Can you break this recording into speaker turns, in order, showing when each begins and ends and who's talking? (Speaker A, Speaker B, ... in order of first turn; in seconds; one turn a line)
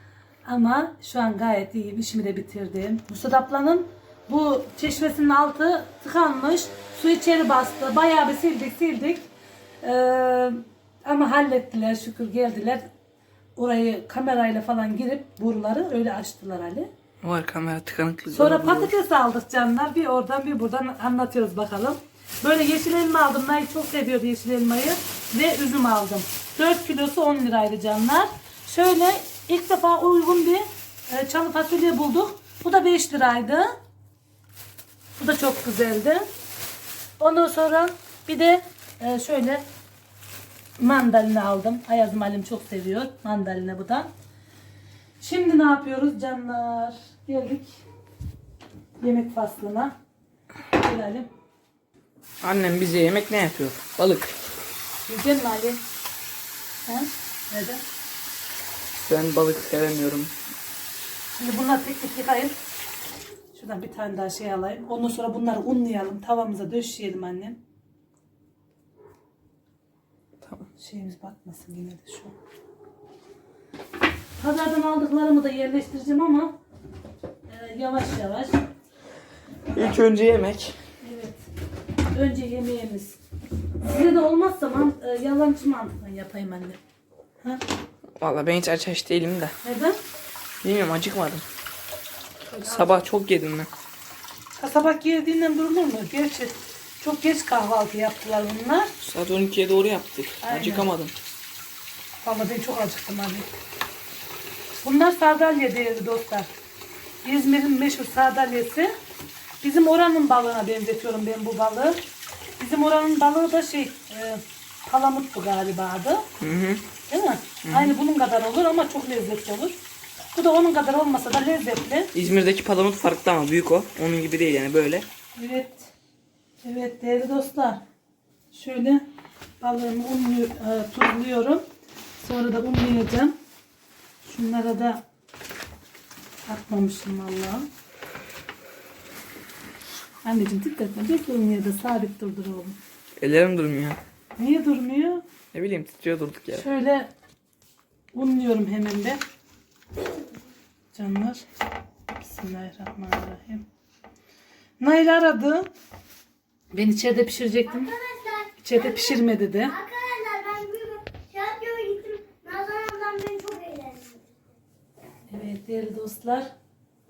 Speaker A: 0.4-9.3
Speaker A: 9.8-12.9
Speaker A: 13.6-16.9
Speaker B: 17.2-18.9
Speaker A: 18.3-33.7
Speaker A: 35.2-36.2
Speaker A: 37.2-39.6
Speaker A: 40.8-44.1
Speaker A: 45.2-47.8
Speaker A: 49.0-49.9
Speaker A: 50.7-51.3
Speaker B: 52.4-54.4
Speaker A: 55.0-55.8
Speaker A: 56.9-57.8
Speaker B: 59.0-60.3
Speaker A: 61.4-62.5
Speaker A: 63.5-67.6
Speaker B: 70.4-70.7
Speaker A: 70.8-72.3
Speaker A: 74.4-76.5
Speaker A: 77.5-78.6
Speaker B: 79.7-80.8
Speaker A: 81.0-81.4
Speaker A: 82.1-83.2
Speaker A: 83.8-86.8
Speaker B: 88.2-89.5
Speaker A: 89.6-90.0
Speaker B: 90.6-91.4
Speaker A: 92.5-93.0
Speaker B: 92.6-93.7
Speaker A: 94.5-98.9
Speaker B: 99.0-101.1
Speaker A: 100.4-100.9
Speaker A: 102.2-103.5
Speaker A: 104.8-106.5
Speaker A: 107.2-108.9
Speaker A: 109.6-112.0
Speaker A: 112.6-116.3
Speaker B: 116.4-116.8
Speaker A: 117.1-119.8
Speaker B: 117.6-117.9
Speaker A: 120.3-122.1
Speaker B: 122.1-125.0
Speaker A: 125.3-125.9
Speaker A: 126.6-127.8
Speaker A: 128.5-129.0
Speaker A: 129.6-131.6
Speaker A: 132.2-133.3
Speaker A: 134.2-135.0
Speaker A: 136.5-137.7
Speaker A: 140.2-142.8
Speaker B: 143.2-144.0
Speaker A: 144.4-145.2
Speaker B: 145.5-146.7
Speaker A: 146.5-147.1
Speaker A: 148.1-149.2
Speaker A: 150.9-151.4
Speaker A: 152.2-153.6
Speaker A: 154.8-155.7
Speaker A: 156.7-157.9
Speaker C: 157.7-164.3
Speaker A: 158.6-159.7
Speaker A: 165.3-166.5